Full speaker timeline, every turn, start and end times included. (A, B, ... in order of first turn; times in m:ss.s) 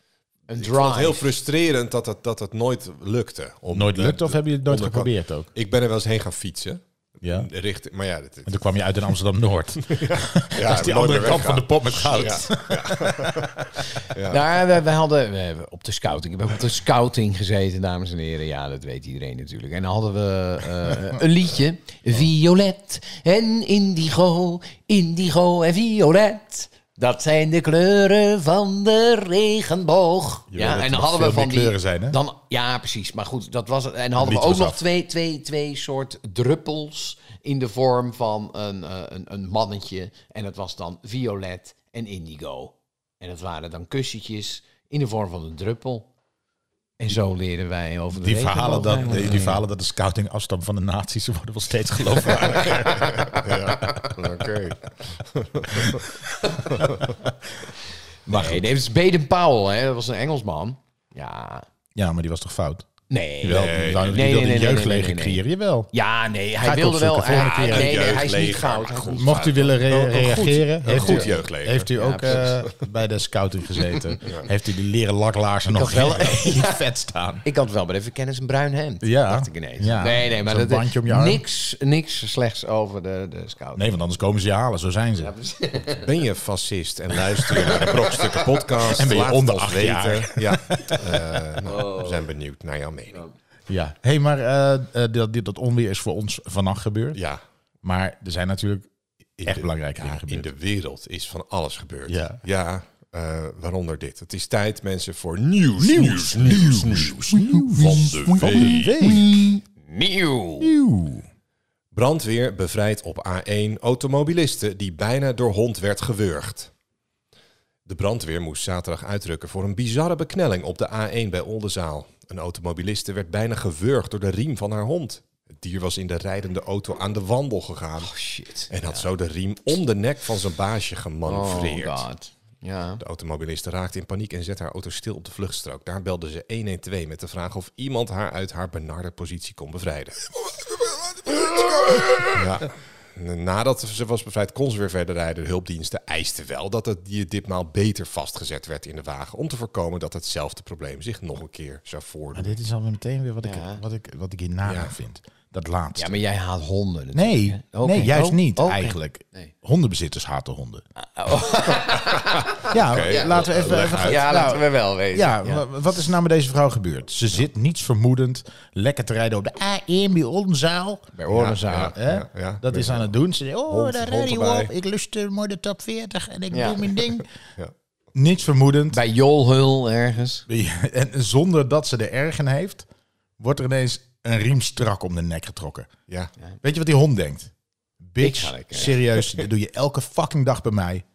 0:00.5-0:01.4 A
0:00.6-0:08.6 B
0:03.7-0:05.5 C
0:07.2-0:07.5 C
0:08.5-0:13.5 C
0:09.9-0:14.4 B
0:12.1-0:12.5 A
0:14.2-0:46.1 A
0:30.5-0:30.8 B
0:30.6-0:32.2 C
0:34.2-0:34.8 C
0:47.0-0:49.6 A
0:48.2-0:53.2 C
0:52.4-0:56.1 B
0:52.5-0:54.1 A
0:56.7-0:57.2 B
0:58.3-0:58.7 C
0:58.3-1:01.6 A
1:02.0-1:02.9 C
1:03.1-1:09.8 A
1:03.4-1:05.9 C
1:03.5-1:04.3 B
1:06.6-1:08.0 C
1:07.5-1:12.8 B
1:09.2-1:17.4 C
1:10.9-1:11.3 A
1:12.0-1:12.5 A
1:14.2-1:14.5 B
1:15.7-1:16.8 A
1:17.4-1:23.9 A
1:19.0-1:21.4 C
1:23.8-1:25.3 C
1:25.2-1:26.1 A
1:26.0-1:33.2 B
1:27.6-1:28.2 A
1:28.9-1:31.4 C
1:31.7-1:32.1 A
1:33.7-1:37.2 C
1:37.2-1:37.4 B
1:37.8-1:38.9 C
1:39.4-1:40.5 C
1:39.4-1:48.9 B
1:42.1-1:42.4 C
1:45.8-1:49.4 C
1:48.4-1:50.7 A
1:50.6-1:51.3 C
1:51.9-1:56.7 B
1:57.9-2:08.1 B
2:08.0-2:09.0 A
2:08.7-2:12.0 B
2:11.3-2:13.0 A
2:13.0-2:20.2 B
2:21.7-2:32.6 B
2:32.4-2:36.2 C
2:33.4-2:33.8 A
2:34.6-2:34.9 B
2:36.0-2:39.5 A
2:37.1-2:40.8 C
2:41.0-2:45.6 A
2:42.0-2:44.4 B
2:42.7-2:51.1 C
2:51.2-2:52.0 A
2:51.3-2:53.1 B
2:52.0-2:57.3 C
2:53.7-2:54.7 B
2:56.5-2:56.8 A
2:58.1-2:59.0 C
2:58.9-3:00.4 A
3:00.5-3:02.9 C
3:03.4-3:05.9 C
3:06.6-3:07.5 C
3:08.1-3:11.0 C
3:08.2-3:09.0 A